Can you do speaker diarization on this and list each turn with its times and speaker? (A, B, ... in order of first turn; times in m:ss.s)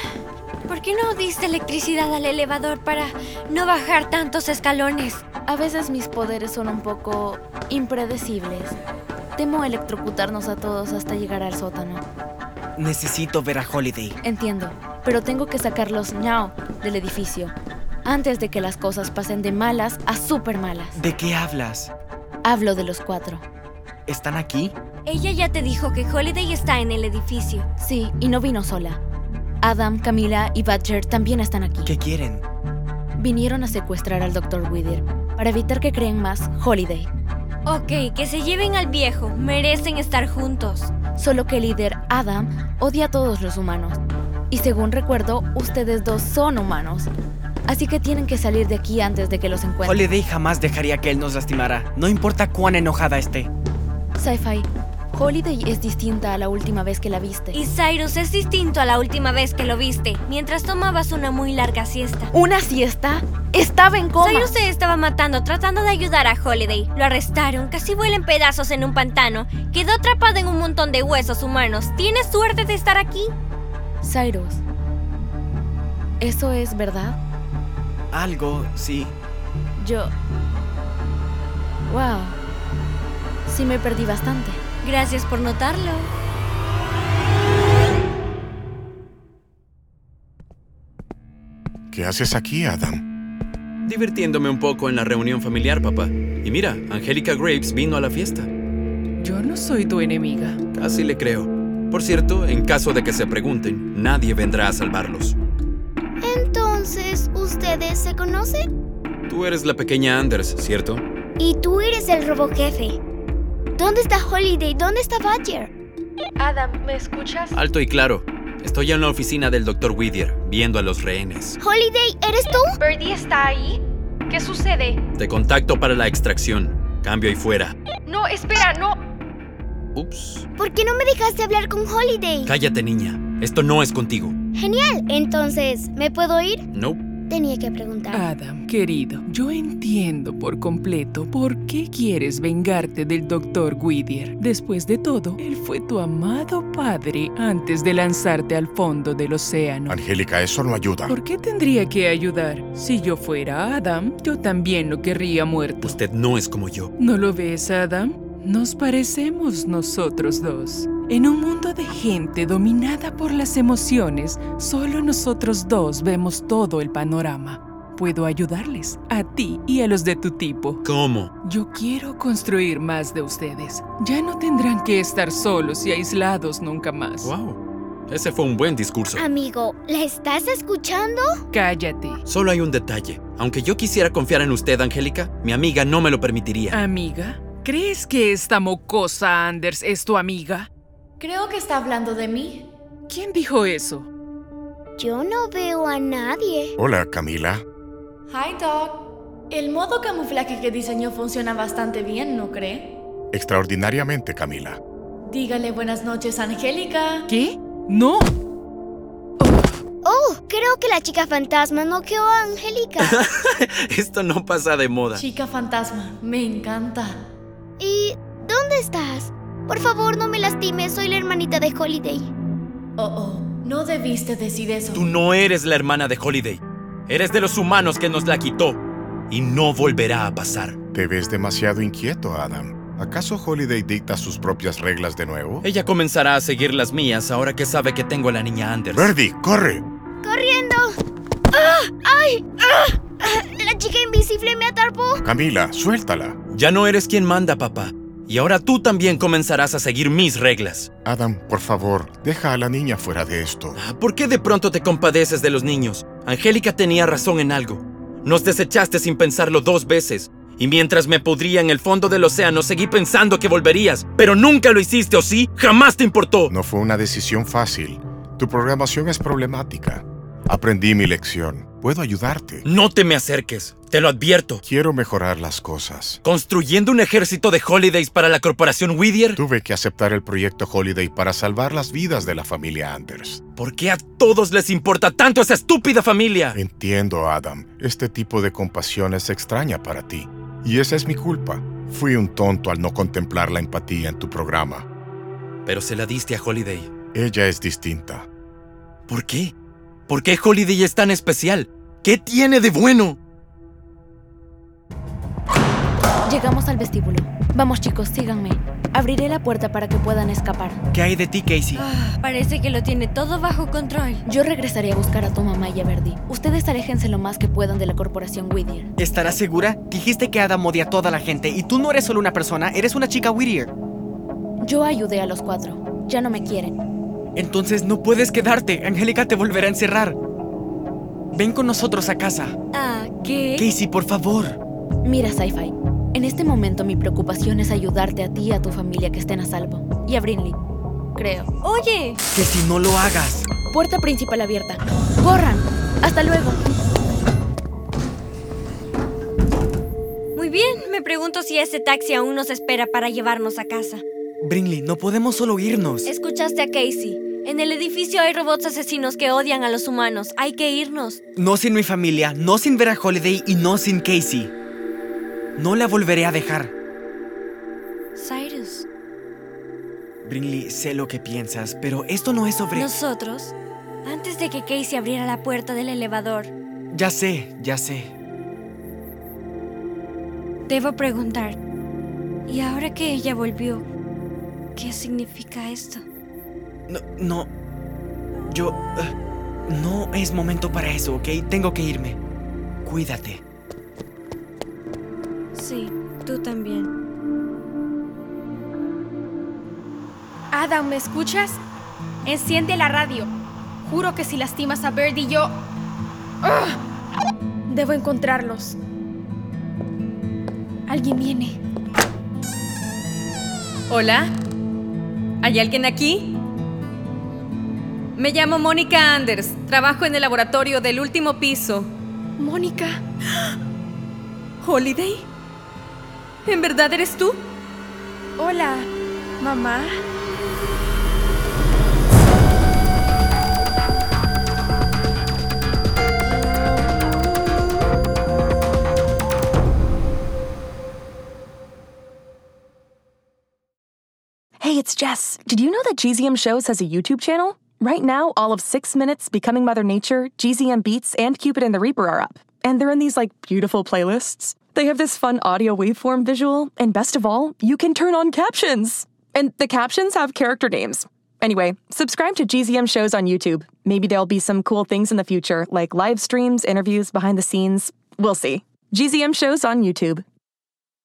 0:00.7-0:05.2 A
0:05.5-0:08.8 B
0:09.4-0:12.0 B
0:12.8-0:14.2 C
0:14.2-0:21.0 B
0:21.0-0:21.9 C
0:22.4-0:23.4 B
0:24.1-0:24.7 C
0:25.0-0:27.6 A
0:27.8-0:29.0 B
0:29.6-0:31.9 B
0:31.8-0:32.4 C
0:33.2-0:37.1 B
0:37.6-0:40.9 A
0:41.2-0:44.0 B
0:44.5-0:47.1 B
0:47.7-0:50.0 B
0:49.8-0:53.5 C
0:54.2-0:57.6 B
0:57.5-1:02.3 A
1:02.3-1:04.6 B
1:04.2-1:13.3 A
1:14.0-1:14.6 B
1:16.2-1:17.2 B
1:18.1-1:19.1 C
1:19.8-1:20.1 B
1:21.9-1:22.4 B
1:23.4-1:24.6 B
1:24.8-1:26.1 A
1:31.9-1:33.0 D
1:33.8-1:38.5 E
1:39.2-1:40.6 F
1:40.7-1:45.4 E
1:46.2-1:48.7 G
1:49.3-1:51.0 E
1:51.4-1:53.0 G
1:53.7-1:55.7 G
1:56.4-1:57.6 H
1:57.5-2:01.6 E
2:01.6-2:02.7 G
2:02.8-2:05.0 H
2:05.2-2:07.8 E
2:08.0-2:09.0 H
2:09.9-2:10.4 E
2:10.6-2:12.5 G
2:12.4-2:14.3 E
2:14.5-2:16.6 G
2:16.7-2:17.0 E
2:17.3-2:18.3 G
2:18.1-2:30.0 F
2:29.9-2:31.2 D
2:31.1-2:36.0 F
2:35.8-2:36.9 E
2:37.0-2:50.8 F
2:50.8-2:51.3 E
2:51.4-2:57.3 F
2:57.2-2:59.2 E
2:59.1-3:01.4 G
3:01.5-3:02.2 F
3:02.2-3:06.8 E
3:06.7-3:10.7 F
3:11.2-3:12.7 H
3:13.1-3:14.1 F
3:15.0-3:16.7 G
3:16.8-3:17.6 D
3:18.3-3:22.9 H
3:23.3-3:24.8 D
3:25.2-3:27.2 H
3:27.3-3:28.3 F
3:30.0-3:33.2 G
3:33.0-3:35.2 E
3:35.2-3:37.2 H
3:37.8-3:42.3 G
3:43.0-3:45.0 H
3:44.9-3:50.8 E
3:50.9-3:55.6 D
3:55.6-3:59.1 E
3:58.9-3:59.8 D
4:00.2-4:00.9 G
4:01.5-4:05.2 G
4:05.2-4:06.4 D
4:06.5-4:10.9 E
4:11.0-4:13.8 D
4:13.7-4:26.5 E
4:26.5-4:32.7 D
4:32.6-4:34.6 E
4:34.6-4:36.2 D
4:36.2-4:39.4 E
4:39.3-4:43.4 D
4:43.6-4:46.6 E
4:46.5-4:54.8 D
4:55.6-4:56.9 E
4:57.1-4:58.3 D
4:59.1-4:59.5 E
5:00.1-5:03.2 E
5:06.2-5:10.8 B
5:10.9-5:11.8 C
5:11.7-5:14.2 A
5:14.2-5:18.9 B
5:19.0-5:23.7 C
5:24.6-5:26.8 B
5:27.4-5:30.2 C
5:31.3-5:32.5 C
5:32.7-5:33.7 A
5:33.6-5:34.6 C
5:35.0-5:40.6 B
5:41.2-5:41.5 B
5:41.6-5:42.2 A
5:42.3-5:43.5 C
5:43.7-5:46.6 B
5:50.4-5:54.0 A
5:54.4-5:56.1 C
5:56.0-6:01.2 A
6:01.4-6:04.5 C
6:05.6-6:06.7 C
6:08.2-6:08.8 A
6:10.2-6:12.9 C
6:12.7-6:13.5 A
6:14.0-6:16.5 A
6:16.9-6:18.1 C
6:20.7-6:21.6 A
6:22.5-6:23.8 A
6:24.8-6:26.0 A
6:26.9-6:27.5 C
6:28.5-6:29.1 C
6:29.7-6:32.2 C
6:32.8-6:33.4 C
6:35.5-6:36.9 A
6:40.5-6:41.6 H
6:42.2-6:43.3 H
6:43.8-6:45.6 H
6:46.4-6:46.8 H
6:47.7-6:48.8 H
6:50.9-6:51.6 H
6:53.9-6:54.3 I
6:55.4-6:56.3 I
6:58.2-7:01.9 I
7:02.4-7:03.0 H
7:04.6-7:05.2 H
7:04.7-7:04.9 I
7:06.4-7:07.4 I
7:08.4-7:08.9 H
7:09.4-7:10.0 H
7:24.6-7:50.2 J